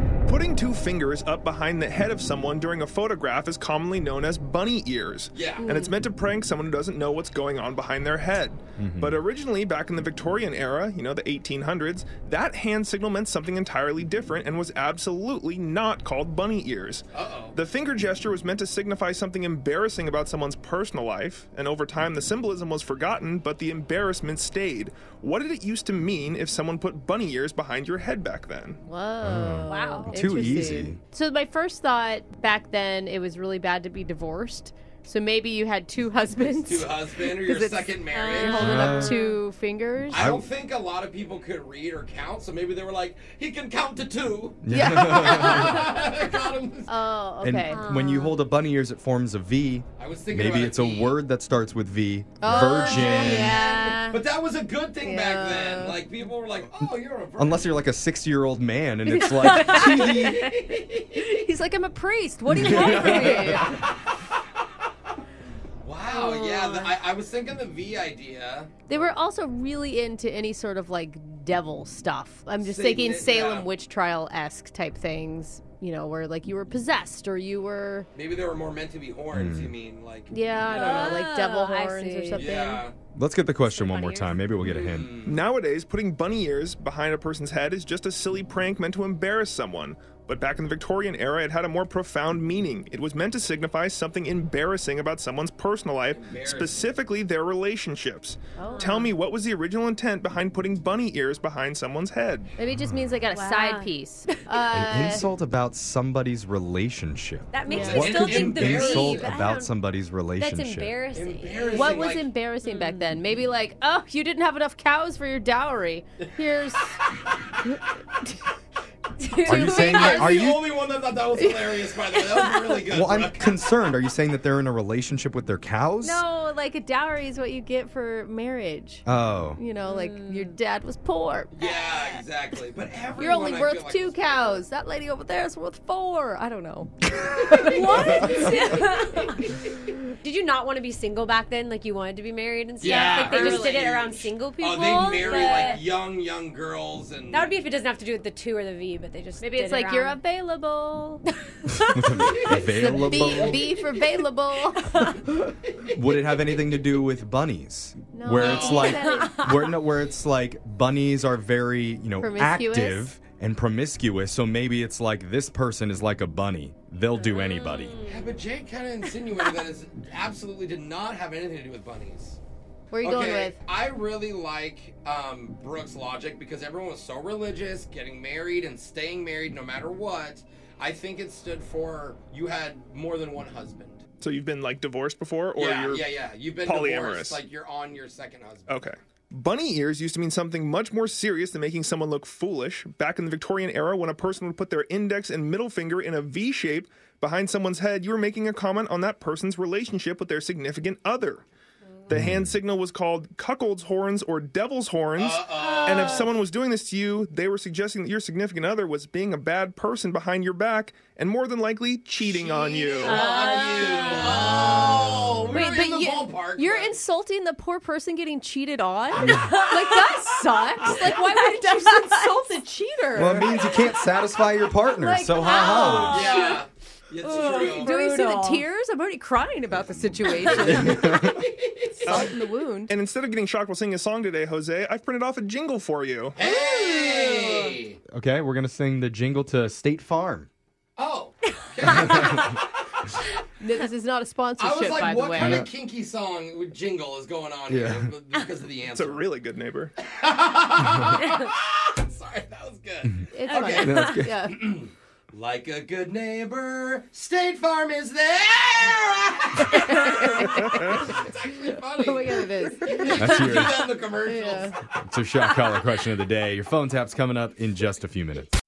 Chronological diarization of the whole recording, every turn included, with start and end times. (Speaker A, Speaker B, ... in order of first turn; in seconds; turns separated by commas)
Speaker A: 0.2-28.8, Speaker B: 5.3-5.8, Speaker C: 5.7-5.9, Speaker D: 8.8-9.2, Speaker B: 17.1-17.6, Speaker C: 28.8-40.3, Speaker D: 29.2-31.0, Speaker E: 29.7-30.2, Speaker B: 36.3-38.8, Speaker E: 38.1-39.4, Speaker D: 38.5-39.2, Speaker B: 40.1-47.0, Speaker D: 40.1-40.5, Speaker D: 44.6-45.8, Speaker C: 44.7-46.0, Speaker C: 46.9-47.9, Speaker D: 47.4-53.6, Speaker E: 47.7-48.4, Speaker B: 50.0-51.2, Speaker C: 52.4-54.2, Speaker B: 52.4-57.7, Speaker C: 55.0-56.0, Speaker D: 57.4-60.4, Speaker C: 59.1-60.3, Speaker B: 59.5-61.2, Speaker C: 61.1-63.8, Speaker B: 62.5-64.1, Speaker D: 62.6-63.5, Speaker B: 65.8-69.0, Speaker C: 66.1-66.9, Speaker C: 68.9-78.1, Speaker B: 72.6-73.7, Speaker B: 78.1-81.2, Speaker D: 79.3-79.7, Speaker C: 80.3-82.8, Speaker E: 80.7-82.5, Speaker B: 82.3-82.9, Speaker D: 83.2-85.3, Speaker E: 83.7-84.4, Speaker B: 84.6-85.4, Speaker A: 85.2-102.5, Speaker B: 96.1-96.9, Speaker C: 98.5-99.1, Speaker E: 98.6-99.1, Speaker C: 102.6-105.3, Speaker D: 102.7-103.1, Speaker E: 103.3-104.6, Speaker D: 104.7-111.0, Speaker E: 107.5-109.7, Speaker C: 107.7-108.2, Speaker B: 107.7-109.3, Speaker E: 110.4-112.1, Speaker B: 111.1-112.3, Speaker C: 111.7-117.0, Speaker E: 112.6-113.2, Speaker C: 117.6-118.3, Speaker E: 119.2-120.2, Speaker D: 119.4-120.7, Speaker C: 119.5-120.5, Speaker B: 119.7-123.6, Speaker C: 121.4-121.8, Speaker D: 122.9-126.2, Speaker C: 126.0-131.5, Speaker D: 129.1-129.6, Speaker E: 129.8-130.6, Speaker B: 131.5-134.4, Speaker C: 133.2-138.8, Speaker B: 137.4-138.6, Speaker E: 137.6-145.8, Speaker B: 142.8-147.6, Speaker C: 142.8-143.8, Speaker C: 145.2-145.8, Speaker E: 147.3-150.2, Speaker C: 149.4-151.2, Speaker D: 151.8-153.6, Speaker C: 152.5-155.5, Speaker B: 152.9-153.6, Speaker D: 155.9-168.0, Speaker C: 158.1-159.7, Speaker B: 158.3-159.0, Speaker E: 158.9-159.6, Speaker C: 162.2-163.1, Speaker E: 167.2-168.3, Speaker B: 168.1-172.4, Speaker C: 172.9-173.6, Speaker B: 173.0-184.0, Speaker A: 184.2-187.4, Speaker B: 185.5-188.9, Speaker A: 188.7-201.4, Speaker A: 202.1-213.2, Speaker D: 202.1-202.6, Speaker B: 205.2-206.2, Speaker E: 205.6-206.3, Speaker B: 212.2-217.0, Speaker C: 212.9-223.7, Speaker E: 213.0-214.8, Speaker E: 219.2-222.3, Speaker D: 223.1-226.3, Speaker C: 225.0-226.6, Speaker E: 225.4-226.6, Speaker B: 225.9-228.0, Speaker E: 227.2-228.6, Speaker C: 227.3-231.2, Speaker B: 230.6-232.2, Speaker D: 230.7-231.4, Speaker A: 232.1-232.3, Speaker C: 232.1-232.9, Speaker A: 232.9-236.4, Speaker B: 236.3-238.0, Speaker C: 236.6-237.7, Speaker D: 238.1-240.5, Speaker B: 241.0-242.6, Speaker E: 241.9-242.4, Speaker C: 243.6-245.7, Speaker B: 244.6-249.3, Speaker D: 245.4-245.7, Speaker D: 247.7-248.1, Speaker A: 248.8-249.9, Speaker B: 250.0-264.8, Speaker C: 253.3-254.7, Speaker D: 253.5-254.3, Speaker C: 259.8-260.9, Speaker C: 261.9-264.8, Speaker D: 263.1-263.9, Speaker D: 264.9-268.6